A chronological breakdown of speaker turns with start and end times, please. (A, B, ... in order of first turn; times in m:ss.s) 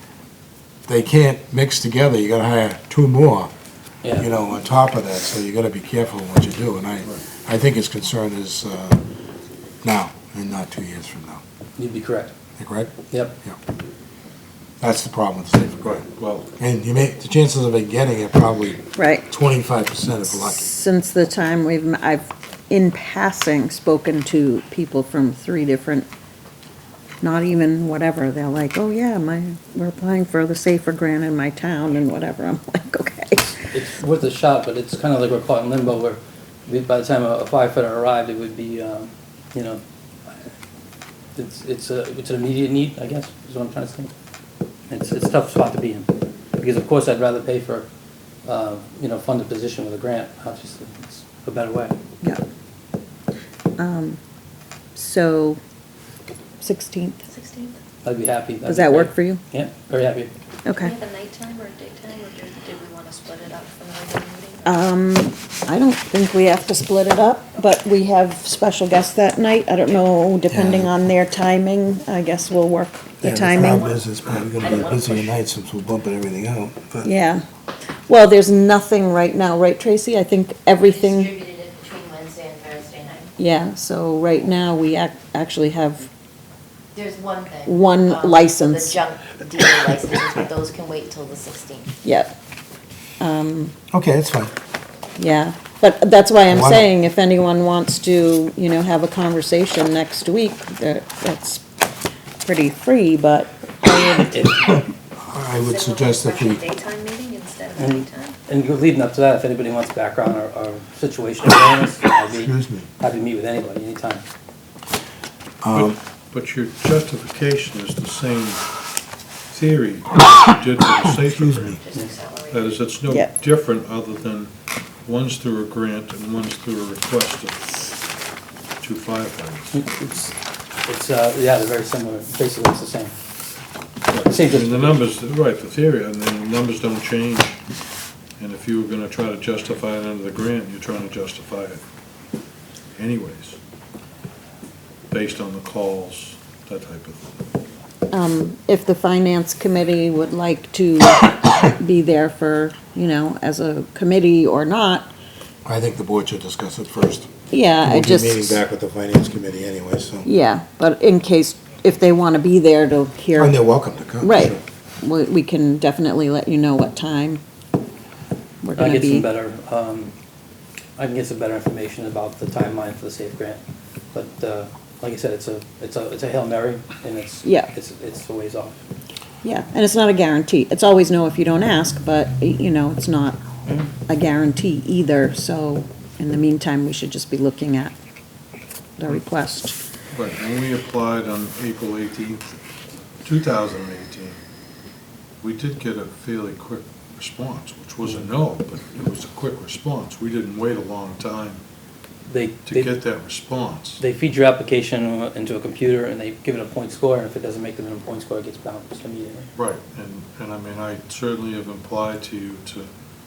0:00.9-0:03.5 A
0:04.2-0:09.0 A
0:09.8-0:11.4 A
0:11.8-0:12.3 B
0:12.6-0:13.6 A
0:14.8-0:16.0 A
0:15.7-0:16.5 C
0:16.6-0:20.7 A
0:19.0-0:19.3 D
0:20.4-0:26.1 D
0:27.2-0:33.6 D
0:33.7-0:40.5 B
0:41.4-0:44.1 B
0:44.9-0:47.9 B
0:48.4-0:52.0 B
0:53.8-0:54.2 D
0:55.0-0:55.6 D
0:56.6-0:57.2 D
0:57.3-0:57.8 E
0:58.0-1:00.3 B
0:58.6-0:59.4 D
1:00.6-1:01.0 D
1:00.7-1:04.8 E
1:04.6-1:13.9 D
1:10.5-1:10.9 A
1:13.2-1:17.1 A
1:14.6-1:15.3 F
1:17.0-1:17.4 D
1:18.1-1:21.3 D
1:20.9-1:23.3 F
1:23.4-1:26.1 D
1:26.9-1:31.9 F
1:27.7-1:29.0 D
1:32.0-1:32.3 D
1:33.2-1:33.8 D
1:33.9-1:34.5 A
1:35.2-1:41.6 D
1:36.5-1:36.9 A
1:42.4-1:44.5 D
1:44.3-1:44.6 B
1:44.6-1:46.6 A
1:45.5-1:48.4 E
1:47.8-1:54.2 B
1:52.3-1:52.9 A
1:55.6-1:56.0 A
1:55.7-1:58.6 C
1:59.5-2:01.8 C
2:01.3-2:01.8 A
2:01.8-2:02.9 E
2:02.5-2:04.5 C
2:05.1-2:07.7 C
2:08.8-2:09.8 C
2:09.7-2:13.2 B
2:14.1-2:17.6 C
2:14.3-2:15.0 B
2:18.4-2:21.8 C
2:23.0-2:23.6 C
2:25.1-2:27.3 C
2:28.1-2:35.1 D
2:35.6-2:37.3 A
2:37.5-2:38.6 D
2:37.8-2:40.3 A
2:40.2-2:43.6 D
2:43.4-2:44.6 A
2:44.2-2:47.4 D
2:48.6-2:49.3 D
2:48.8-2:50.1 B
2:51.0-2:53.6 B
2:54.1-2:58.8 B
2:57.4-2:57.7 D
2:59.4-3:03.4 D
3:04.1-3:07.9 D
3:09.0-3:09.8 D
3:10.1-3:12.6 C
3:13.2-3:14.4 C
3:15.4-3:21.6 C
3:22.3-3:23.0 B
3:22.6-3:24.0 C
3:24.0-3:29.5 B
3:29.6-3:32.9 C